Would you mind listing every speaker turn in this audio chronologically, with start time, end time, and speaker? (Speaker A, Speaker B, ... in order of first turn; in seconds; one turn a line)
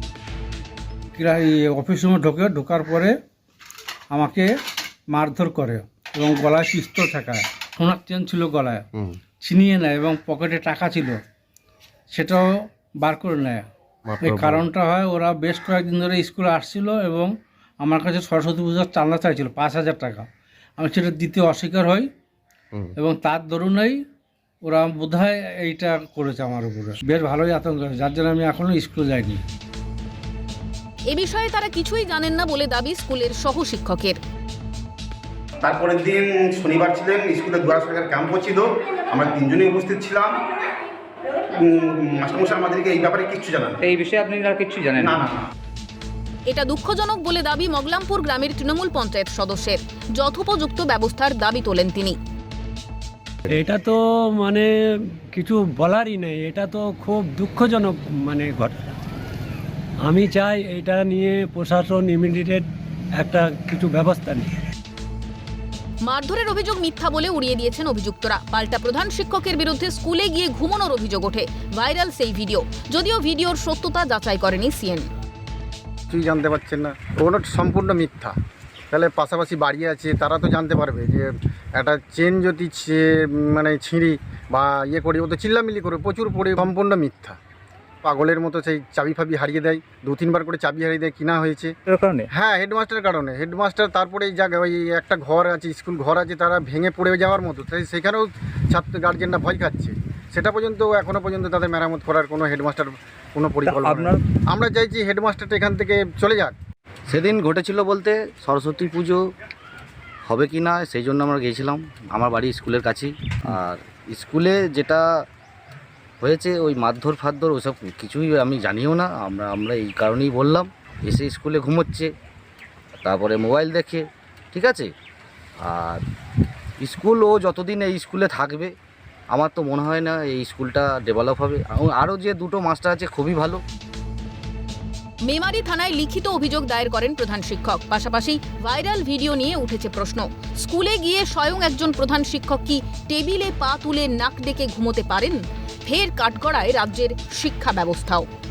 Speaker A: 1.1-3.1
Speaker A: 4.1-4.5
Speaker A: 5.1-8.9
Speaker A: 9.4-11.2
Speaker A: 12.1-12.5
Speaker A: 13.0-13.7
Speaker A: 14.2-17.3
Speaker A: 17.8-20.3
Speaker A: 20.8-22.1
Speaker A: 23.0-24.0
Speaker A: 24.6-29.4
Speaker B: 31.1-34.2
Speaker C: 35.6-40.4
Speaker C: 41.5-43.7
Speaker D: 43.8-45.3
Speaker B: 46.5-52.2
Speaker E: 53.5-58.9
Speaker E: 60.0-64.6
Speaker B: 66.0-75.1
Speaker F: 76.1-78.3
Speaker F: 78.9-87.4
Speaker F: 88.0-91.7
Speaker D: 91.9-92.3
Speaker F: 92.3-106.5
Speaker D: 103.8-104.2
Speaker G: 107.1-109.2
Speaker G: 110.2-115.1
Speaker G: 116.2-122.1
Speaker G: 123.0-124.9
Speaker G: 125.6-126.0
Speaker G: 126.8-128.7
Speaker G: 129.3-133.6
Speaker B: 135.2-148.3